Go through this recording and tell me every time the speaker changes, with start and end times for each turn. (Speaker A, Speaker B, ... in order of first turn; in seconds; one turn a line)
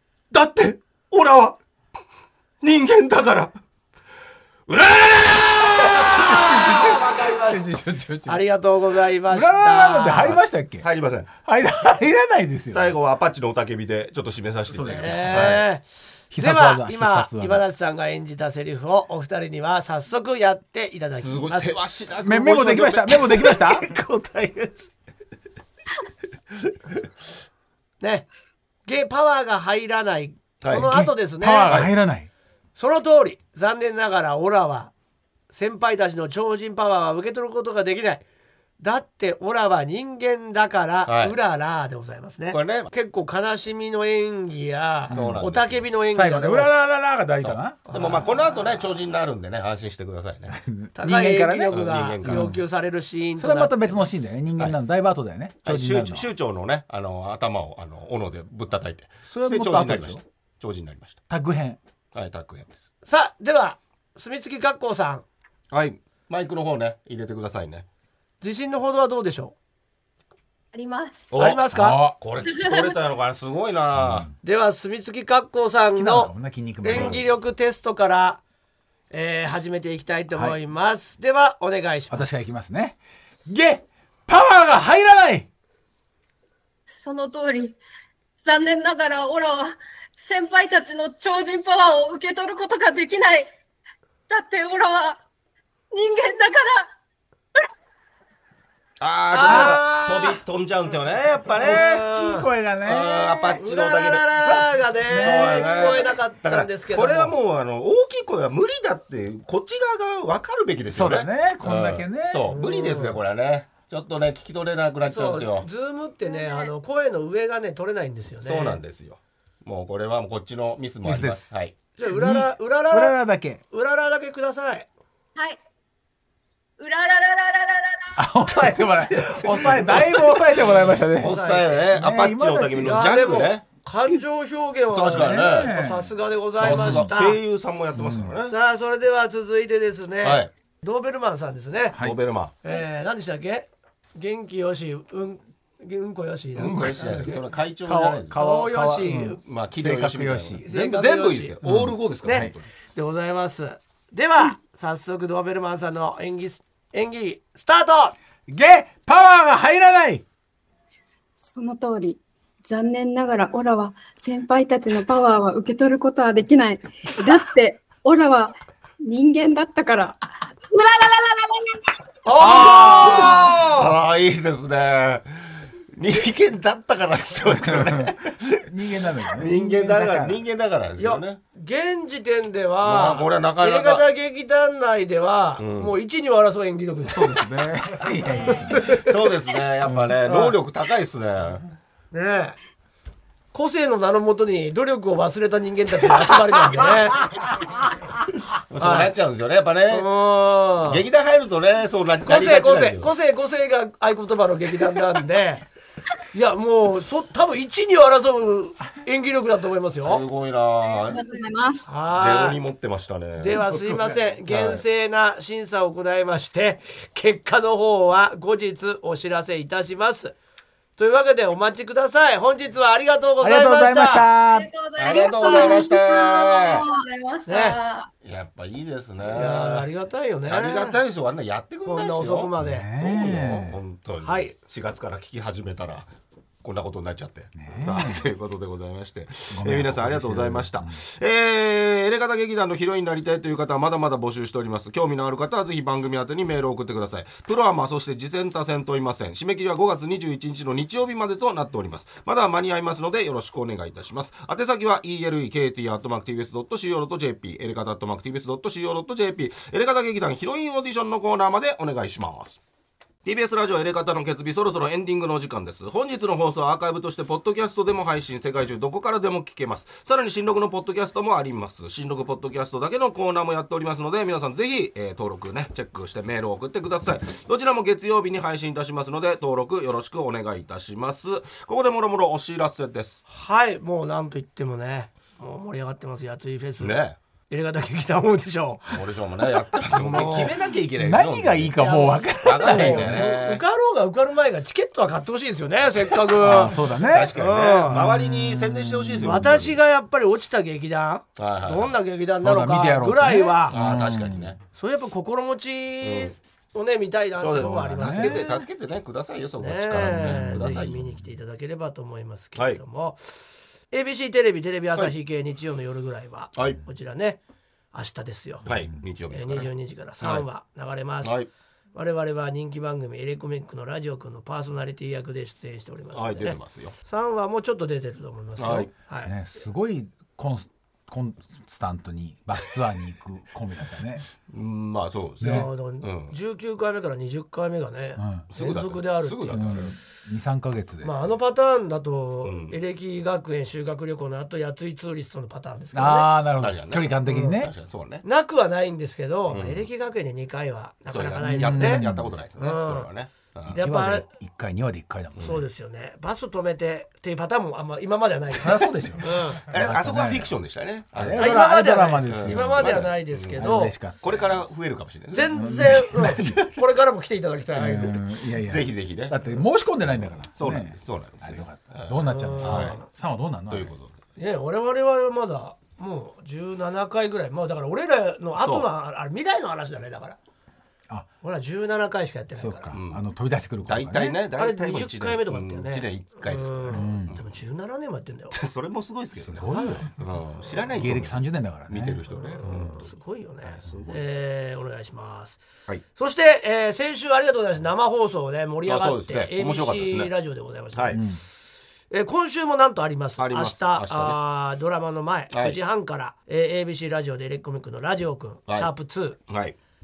Speaker A: 0.3-1.6
Speaker A: 2.6-3.5
Speaker A: 4.7-6.4
Speaker B: 5.8-8.4
Speaker C: 6.0-7.6
Speaker C: 8.3-10.4
Speaker B: 9.3-12.9
Speaker A: 10.2-11.3
Speaker A: 12.7-15.7
Speaker B: 14.7-15.6
Speaker C: 15.0-21.8
Speaker B: 16.3-17.6
Speaker A: 21.2-23.4
Speaker B: 22.2-23.9
Speaker C: 23.4-24.9
Speaker C: 28.0-28.3
Speaker C: 28.9-31.8
Speaker A: 30.6-31.0
Speaker B: 30.8-32.3
Speaker A: 31.7-31.9
Speaker C: 32.8-34.9
Speaker C: 35.5-38.2
Speaker C: 38.8-46.7
Speaker A: 41.1-41.4
Speaker A: 42.5-42.9
Speaker B: 45.1-45.5
Speaker A: 45.1-45.9
Speaker B: 46.1-47.8
Speaker A: 47.4-50.6
Speaker C: 47.9-48.3
Speaker B: 50.5-52.6
Speaker C: 51.0-54.1
Speaker A: 51.7-52.5
Speaker B: 53.4-56.3
Speaker A: 55.6-61.2
Speaker B: 59.3-60.2
Speaker B: 61.3-61.8
Speaker A: 62.1-62.7
Speaker C: 63.0-65.2
Speaker A: 65.7-67.8
Speaker C: 68.4-69.5
Speaker D: 70.7-71.3
Speaker A: 71.3-74.3
Speaker C: 71.3-72.0
Speaker B: 71.7-72.2
Speaker D: 72.4-73.0
Speaker B: 74.0-74.3
Speaker C: 74.4-76.3
Speaker B: 75.9-77.2
Speaker C: 76.8-78.4
Speaker A: 76.9-77.2
Speaker C: 79.1-82.3
Speaker B: 82.1-85.5
Speaker D: 87.0-87.8
Speaker D: 88.4-93.5
Speaker D: 94.3-95.2
Speaker D: 95.9-96.9
Speaker A: 99.0-102.0
Speaker C: 99.3-99.9
Speaker B: 99.4-100.4
Speaker C: 101.6-102.5
Speaker B: 101.7-103.6
Speaker A: 102.8-104.6
Speaker C: 103.6-107.3
Speaker B: 104.5-106.1
Speaker A: 105.2-115.7
Speaker B: 110.9-112.5
Speaker C: 112.5-113.2
Speaker C: 115.1-118.8
Speaker D: 116.3-116.7
Speaker A: 118.5-121.8
Speaker B: 121.0-121.5
Speaker C: 122.0-123.2
Speaker B: 122.0-123.6
Speaker C: 123.7-124.9
Speaker D: 126.8-128.3
Speaker B: 128.2-131.4
Speaker A: 129.3-129.9
Speaker A: 131.2-133.6
Speaker C: 131.2-131.8
Speaker B: 131.9-133.0
Speaker C: 132.8-137.4
Speaker A: 134.9-135.8
Speaker B: 135.1-137.1
Speaker A: 136.6-138.5
Speaker B: 137.9-138.4
Speaker C: 138.5-142.0
Speaker A: 140.2-140.5
Speaker A: 142.0-142.5
Speaker C: 142.6-147.4
Speaker A: 146.6-148.4
Speaker B: 147.9-150.6
Speaker C: 148.3-149.4
Speaker A: 149.4-152.7
Speaker C: 150.6-151.6
Speaker B: 151.6-152.5
Speaker C: 152.2-158.2
Speaker B: 158.5-160.2
Speaker E: 161.4-171.9
Speaker C: 172.2-173.9
Speaker A: 172.4-178.7
Speaker B: 172.5-173.6
Speaker B: 177.5-180.4
Speaker A: 179.2-181.4
Speaker C: 181.0-187.4
Speaker A: 182.8-184.1
Speaker A: 185.6-185.9
Speaker B: 187.1-189.0
Speaker C: 188.5-189.1
Speaker A: 188.8-191.6
Speaker B: 189.9-190.1
Speaker C: 190.2-190.6
Speaker C: 192.1-192.6
Speaker C: 193.5-197.3
Speaker A: 198.5-200.1
Speaker C: 198.8-199.1
Speaker C: 199.9-201.0
Speaker A: 200.9-203.1
Speaker C: 202.3-205.7
Speaker C: 206.3-210.2
Speaker A: 210.0-211.2
Speaker D: 211.0-211.4
Speaker E: 211.1-211.9
Speaker C: 211.9-212.6
Speaker A: 212.1-213.7
Speaker C: 213.4-220.3
Speaker B: 213.7-214.2
Speaker A: 214.5-214.8
Speaker C: 221.0-224.3
Speaker B: 223.4-224.7
Speaker D: 224.4-228.1
Speaker A: 225.0-226.9
Speaker E: 225.4-225.8
Speaker C: 227.5-227.8
Speaker A: 228.2-229.9
Speaker C: 229.2-231.0
Speaker A: 230.5-236.1
Speaker C: 231.8-233.0
Speaker B: 232.6-233.8
Speaker C: 234.2-234.5
Speaker A: 236.6-262.6
Speaker B: 237.6-238.2
Speaker B: 239.5-241.0
Speaker A: 263.2-283.2
Speaker C: 283.3-289.0
Speaker A: 286.8-287.2
Speaker A: 288.9-291.9
Speaker C: 289.9-290.6
Speaker B: 291.0-293.3
Speaker C: 291.8-296.8
Speaker A: 292.4-293.6
Speaker B: 296.4-297.4
Speaker A: 296.4-299.8
Speaker C: 297.3-298.0
Speaker B: 297.9-299.4
Speaker C: 299.2-303.8
Speaker A: 301.4-301.9
Speaker B: 302.4-304.5
Speaker A: 303.7-304.6
Speaker C: 304.8-308.6
Speaker A: 306.0-306.3
Speaker A: 307.4-311.1
Speaker B: 307.6-308.6
Speaker C: 309.6-317.4
Speaker B: 310.0-310.4
Speaker A: 316.5-316.8
Speaker C: 317.9-318.7
Speaker A: 318.6-319.7
Speaker C: 319.3-321.4
Speaker A: 320.2-320.5
Speaker A: 321.2-321.5
Speaker C: 321.9-329.3
Speaker A: 326.1-327.0
Speaker A: 328.6-328.9
Speaker B: 329.2-334.3
Speaker A: 334.5-336.4
Speaker B: 335.4-335.7
Speaker C: 335.4-339.8
Speaker B: 338.2-338.5
Speaker A: 338.5-340.0
Speaker B: 339.5-341.1
Speaker C: 341.0-346.3
Speaker A: 342.4-342.8
Speaker B: 345.9-347.7
Speaker A: 346.6-348.2
Speaker C: 347.3-347.6
Speaker C: 348.2-352.0
Speaker A: 349.5-349.9
Speaker A: 351.1-353.8
Speaker B: 351.4-352.3
Speaker C: 352.6-353.1
Speaker B: 353.7-355.6
Speaker C: 353.7-354.3
Speaker C: 355.4-359.6
Speaker B: 358.6-360.5
Speaker A: 359.7-361.6
Speaker B: 361.1-364.6
Speaker C: 361.4-363.9
Speaker A: 362.3-363.7
Speaker A: 364.2-366.7
Speaker C: 365.3-368.2
Speaker B: 365.6-366.6
Speaker B: 367.8-373.9
Speaker A: 368.6-369.5
Speaker A: 370.2-373.0
Speaker C: 372.2-373.1
Speaker A: 373.7-374.1
Speaker C: 374.4-380.4
Speaker A: 378.6-378.9
Speaker C: 381.4-383.0
Speaker B: 382.6-384.4
Speaker A: 382.9-383.2
Speaker A: 383.9-387.4
Speaker C: 384.2-388.6
Speaker B: 386.9-387.3
Speaker A: 388.5-393.1
Speaker B: 389.4-390.2
Speaker C: 389.7-390.1
Speaker B: 390.9-392.2
Speaker C: 392.3-395.6
Speaker A: 393.7-394.4
Speaker C: 396.1-401.6
Speaker A: 398.9-400.3
Speaker A: 400.9-401.2
Speaker B: 401.1-401.4
Speaker C: 402.1-409.4
Speaker A: 403.4-404.4
Speaker A: 405.5-405.8
Speaker A: 409.5-409.8